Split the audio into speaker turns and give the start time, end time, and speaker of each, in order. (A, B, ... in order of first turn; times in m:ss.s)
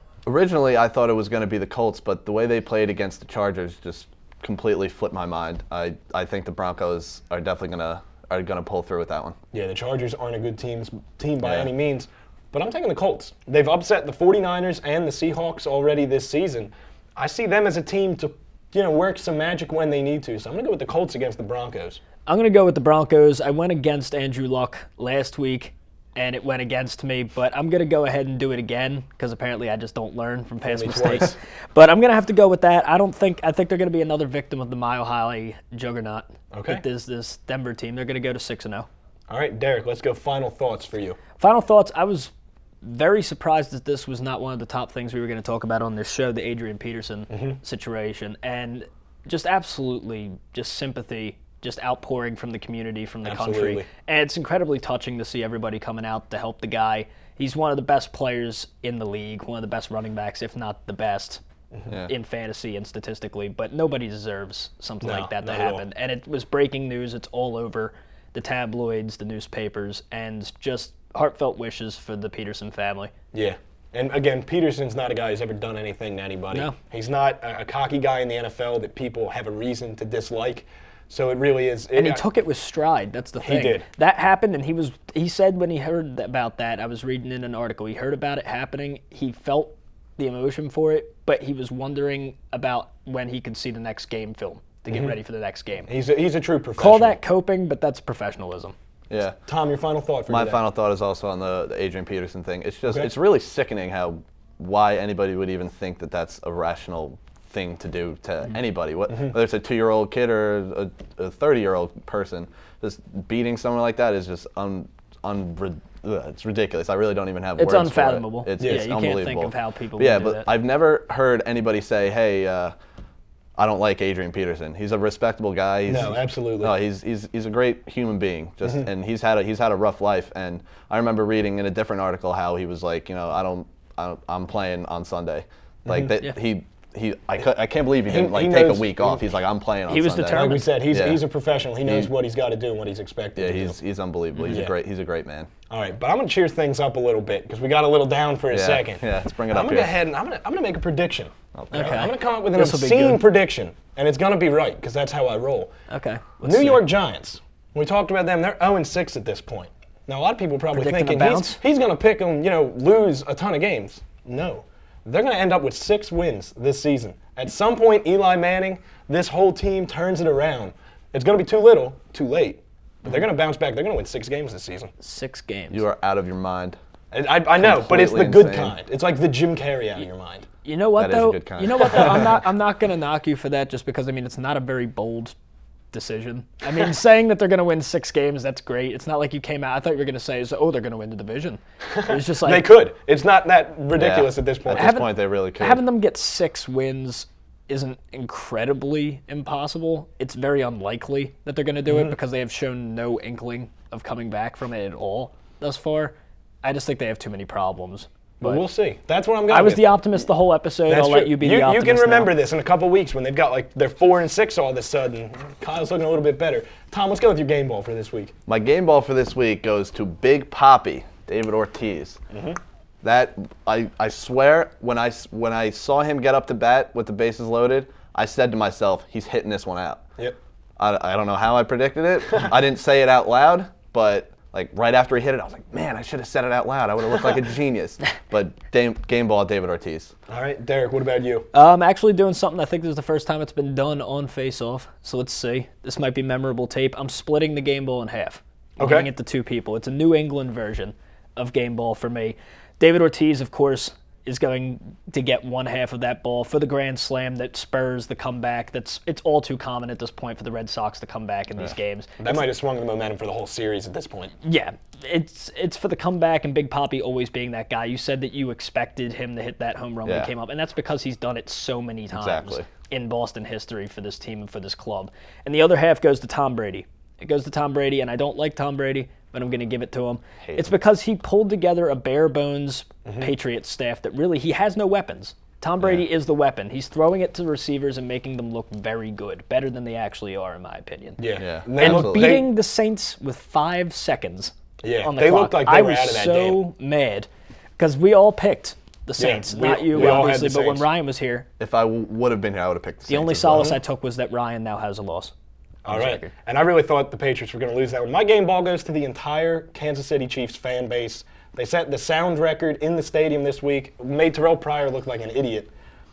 0:00.3-0:09.4 A
0:09.5-0:22.0 B
0:11.4-0:11.7 A
0:22.3-0:38.9 C
0:30.6-0:31.4 B
0:36.5-0:36.8 B
0:39.3-0:41.2 B
0:41.4-0:42.3 C
0:42.8-1:01.4 C
0:47.3-0:47.6 B
0:53.2-0:53.9 B
1:02.1-1:13.1 C
1:05.0-1:05.8 B
1:13.3-1:22.2 B
1:22.0-1:35.9 C
1:23.4-1:23.8 B
1:35.9-1:37.2 B
1:36.8-1:38.7 C
1:39.1-1:39.4 A
1:39.4-1:40.6 B
1:40.3-2:02.7 A
1:42.9-1:43.1 B
1:57.6-2:00.5 C
1:58.6-1:58.9 B
2:03.6-2:21.2 A
2:05.9-2:06.7 B
2:15.9-2:16.2 B
2:18.1-2:19.3 B
2:19.9-2:20.7 C
2:20.2-2:23.8 B
2:21.8-2:22.1 A
2:23.4-2:25.5 A
2:24.5-2:24.8 B
2:25.7-2:35.7 B
2:28.5-2:30.0 A
2:31.5-2:31.9 A
2:31.7-2:33.2 C
2:35.9-2:36.8 C
2:36.4-2:54.9 B
2:40.7-2:41.6 C
2:55.0-2:55.8 C
2:55.7-2:56.8 A
2:57.1-3:00.5 B
2:57.6-2:58.8 A
3:00.6-3:05.4 C
3:01.0-3:02.3 A
3:05.9-3:12.7 C
3:11.9-3:15.0 B
3:14.0-3:15.8 A
3:14.7-3:28.6 C
3:21.8-3:22.2 B
3:28.4-3:30.0 B
3:29.5-3:32.4 C
3:30.9-3:38.4 B
3:38.5-3:42.2 A
3:42.3-3:42.6 B
3:43.0-3:50.0 A
3:50.8-4:00.1 A
4:00.3-4:01.5 B
4:01.5-4:22.4 C
4:08.8-4:09.1 B
4:22.2-4:24.4 B
4:24.4-4:51.3 C
4:30.1-4:30.3 A
4:32.1-4:32.7 A
4:40.4-4:40.7 A
4:43.1-4:43.3 B
4:45.8-4:46.0 A
4:51.2-4:52.5 B
4:51.4-4:52.4 A
4:51.8-5:01.5 C
4:54.8-4:56.6 B
4:59.2-5:00.9 B
5:01.6-5:03.8 A
5:03.1-5:05.3 C
5:03.5-5:03.8 B
5:05.8-5:06.3 C
5:05.8-5:15.7 B